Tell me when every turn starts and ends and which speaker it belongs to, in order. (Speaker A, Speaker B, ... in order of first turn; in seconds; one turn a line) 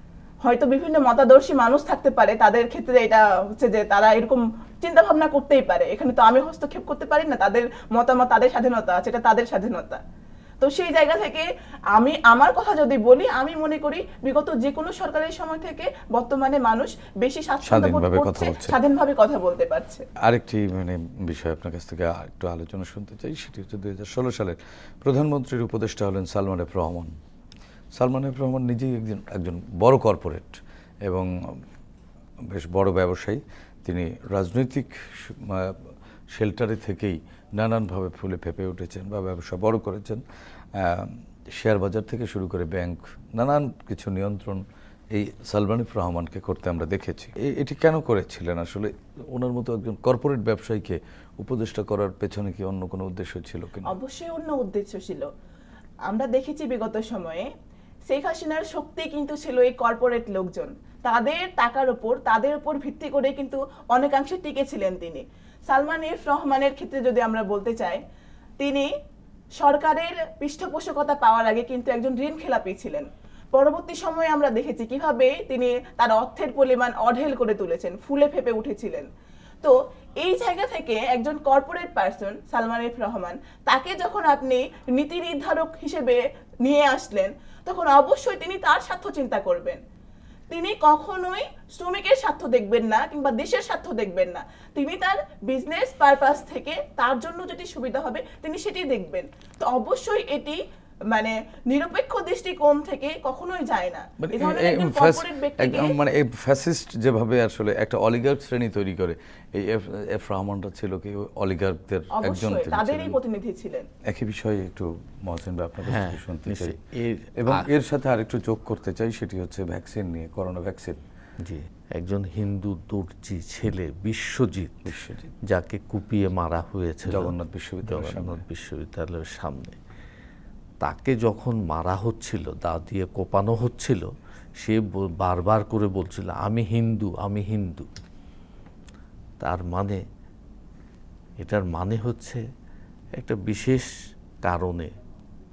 Speaker A: 0.4-10.0
Speaker A: 10.6-20.0
Speaker B: 17.6-18.8
Speaker B: 20.2-27.1
Speaker B: 27.9-31.6
Speaker B: 32.5-40.2
Speaker B: 40.7-54.0
Speaker A: 53.8-55.3
Speaker A: 56.0-57.5
Speaker A: 58.1-68.0
Speaker A: 68.6-68.9
Speaker A: 69.6-79.1
Speaker A: 79.6-89.8
Speaker A: 90.5-100.6
Speaker A: 101.1-105.9
Speaker B: 104.2-113.2
Speaker A: 112.1-113.9
Speaker B: 114.0-116.8
Speaker C: 115.8-117.7
Speaker B: 117.4-121.0
Speaker C: 121.4-124.9
Speaker B: 124.8-125.3
Speaker C: 125.5-127.3
Speaker B: 127.0-128.4
Speaker C: 127.8-129.8
Speaker C: 130.8-137.9
Speaker C: 139.4-140.0
Speaker C: 141.4-142.4
Speaker C: 143.2-143.9
Speaker C: 144.4-144.9